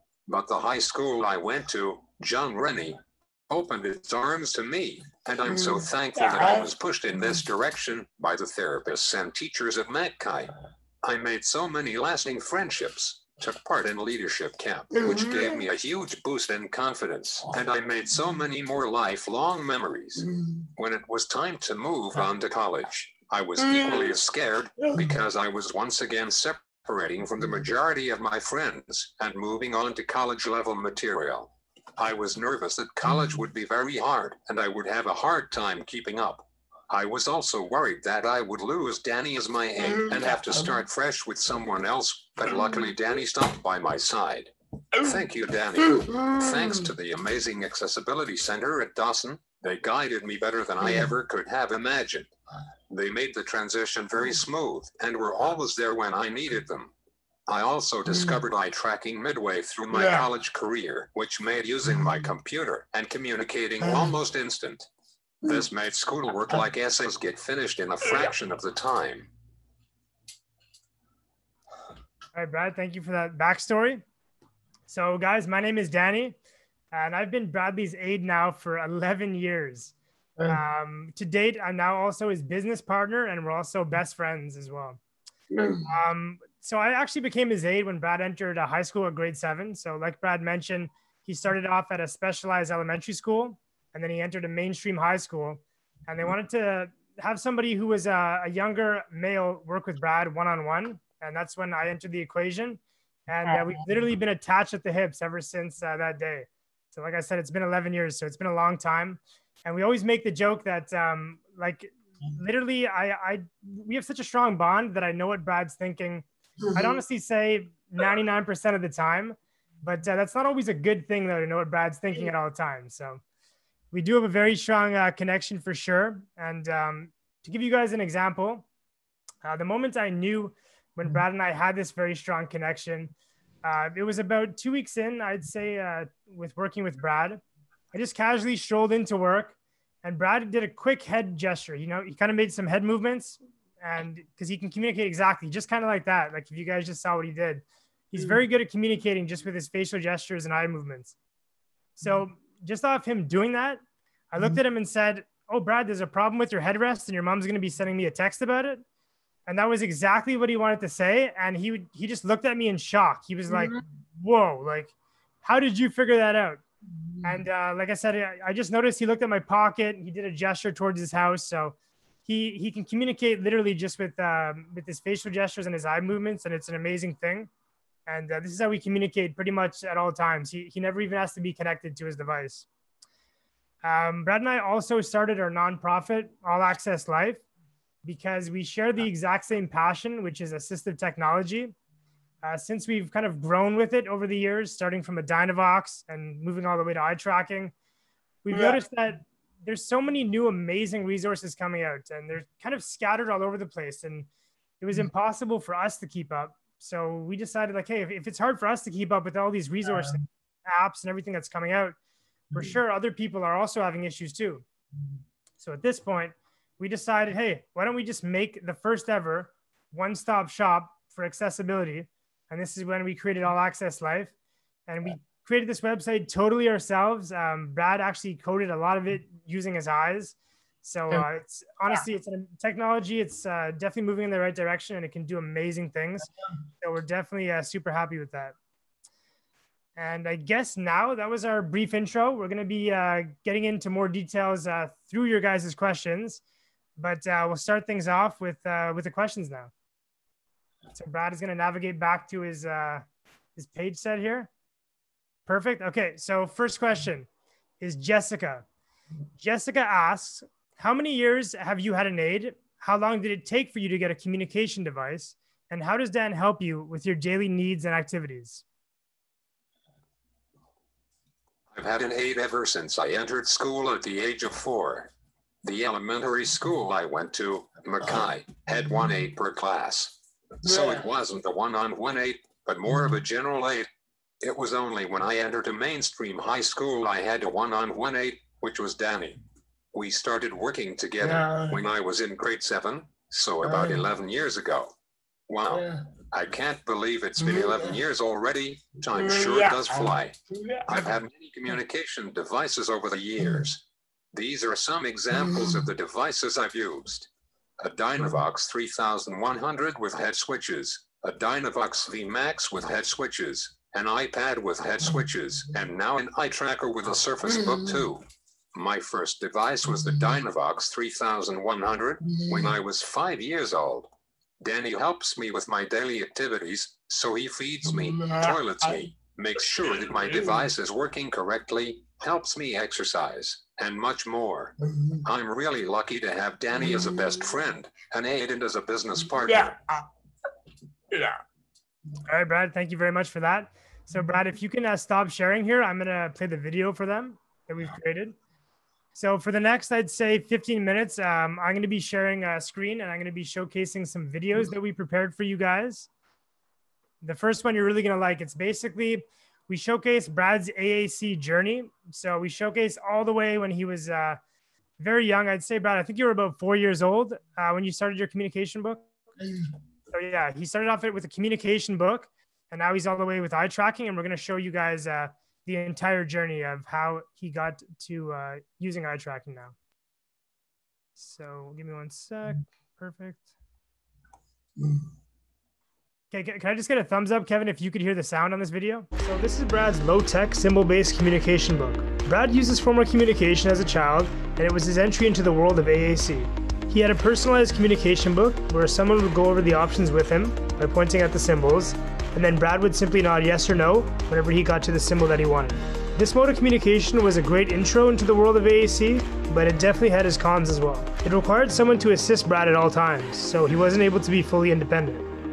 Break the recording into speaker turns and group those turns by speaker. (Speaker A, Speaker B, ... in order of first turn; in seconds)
Speaker A: 0.3-52.3, 52.9-56.9, 57.5-64.9, 65.4-69.3, 271.7-275.1, 275.6-283.9, 284.4-289.4, 289.9-294.9, 295.5-339.8
Speaker B: 5.5-6.7, 15.0-15.6, 20.3-20.6, 23.6-24.2, 39.8-40.8, 45.9-46.9, 58.1-58.4, 59.9-60.3, 63.8-64.1, 85.5-85.9, 103.5-103.8, 163.5-163.8, 198.5-198.8, 280.7-280.9, 291.2-291.8, 293.6-294.0, 295.7-296.0, 297.4-298.0, 299.1-301.1, 305.4-305.8, 317.6-318.0, 322.3-322.7, 327.9-329.1, 330.0-330.6, 334.9-335.2, 336.8-337.3, 339.2-340.1, 341.1-341.4, 384.8-385.1
Speaker C: 72.3-74.0, 74.9-76.4, 76.9-79.9, 80.5-85.0, 85.9-123.2, 123.9-128.7, 129.4-133.1, 133.6-137.4, 137.9-151.2, 152.0-158.8, 159.5-166.6, 167.2-177.5, 178.1-182.7, 183.8-187.4, 188.0-191.8, 192.4-197.7, 198.4-204.3, 204.8-212.0, 212.5-214.7, 215.6-224.3, 224.9-236.3, 236.8-238.6, 240.0-246.4, 247.0-249.7, 250.9-253.1, 253.6-254.5, 255.5-257.3, 257.8-258.6, 259.4-268.6, 342.2-348.4, 349.1-356.1, 357.2-364.4, 365.0-369.1, 370.1-379.8, 381.2-383.5, 386.3-415.3